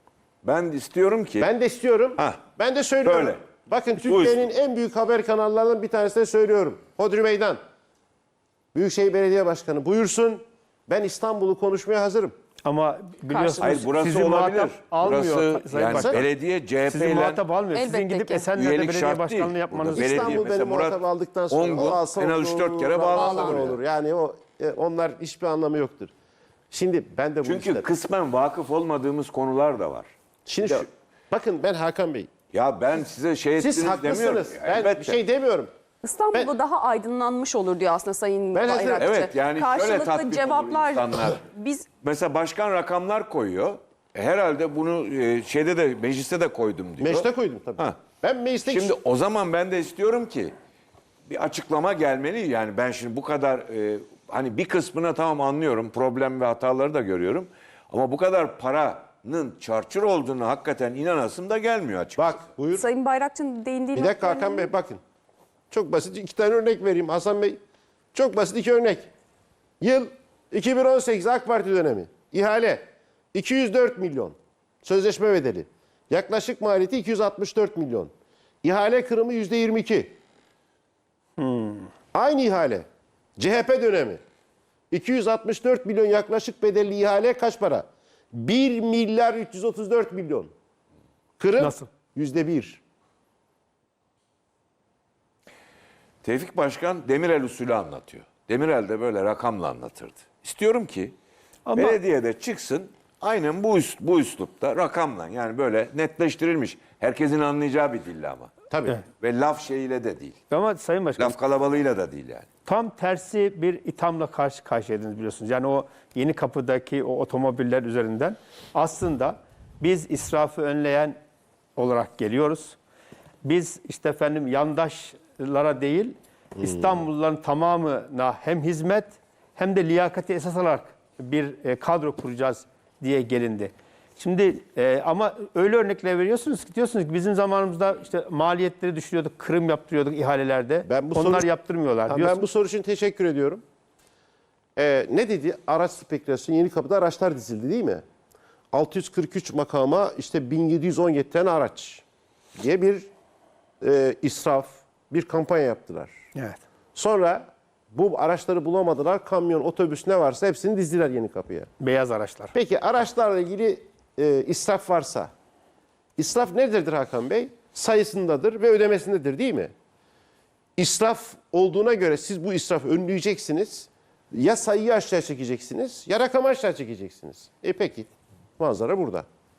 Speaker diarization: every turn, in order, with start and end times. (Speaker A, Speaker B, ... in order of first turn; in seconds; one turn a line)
Speaker A: 0.4-1.5
Speaker B: 1.4-7.6
Speaker A: 2.2-2.4
Speaker A: 3.0-3.4
Speaker A: 4.0-4.4
Speaker B: 8.7-12.3
Speaker C: 12.6-16.3
Speaker A: 13.6-17.4
Speaker B: 15.9-16.2
Speaker C: 16.9-20.4
Speaker D: 17.7-18.5
Speaker A: 18.6-21.0
Speaker B: 19.9-26.1
Speaker A: 21.5-23.8
Speaker D: 23.2-23.6
Speaker B: 26.7-27.9
Speaker A: 27.4-30.1
Speaker B: 30.4-32.3
Speaker A: 32.5-35.2
Speaker B: 33.6-35.7
Speaker D: 36.0-41.9
Speaker B: 38.5-39.1
Speaker A: 39.0-41.4
Speaker A: 42.0-48.0
Speaker B: 47.0-49.0
Speaker A: 48.6-50.5
Speaker A: 51.3-62.4
Speaker B: 62.1-62.8
Speaker D: 62.7-64.7
Speaker B: 63.9-65.0
Speaker B: 65.7-67.6
Speaker B: 68.1-69.1
Speaker B: 69.8-78.1
Speaker B: 78.6-80.2
Speaker C: 81.4-81.9
Speaker B: 82.1-82.8
Speaker B: 83.4-84.2
Speaker B: 84.9-90.5
Speaker B: 91.4-92.8
Speaker C: 91.6-91.9
Speaker A: 96.2-101.1
Speaker C: 101.7-102.0
Speaker A: 101.8-108.5
Speaker B: 108.7-109.0
Speaker A: 109.2-110.4
Speaker C: 110.5-111.3
Speaker A: 111.2-112.5
Speaker C: 112.7-121.2
Speaker C: 121.8-122.8
Speaker C: 123.4-142.3
Speaker B: 126.6-126.9
Speaker B: 140.8-141.5
Speaker B: 142.1-143.6
Speaker B: 144.8-148.0
Speaker B: 148.7-152.0
Speaker B: 152.5-153.1
Speaker B: 153.8-156.2
Speaker C: 156.3-156.6
Speaker B: 156.9-161.7
Speaker C: 161.8-162.5
Speaker B: 162.5-165.3
Speaker B: 166.2-169.7
Speaker B: 170.8-179.2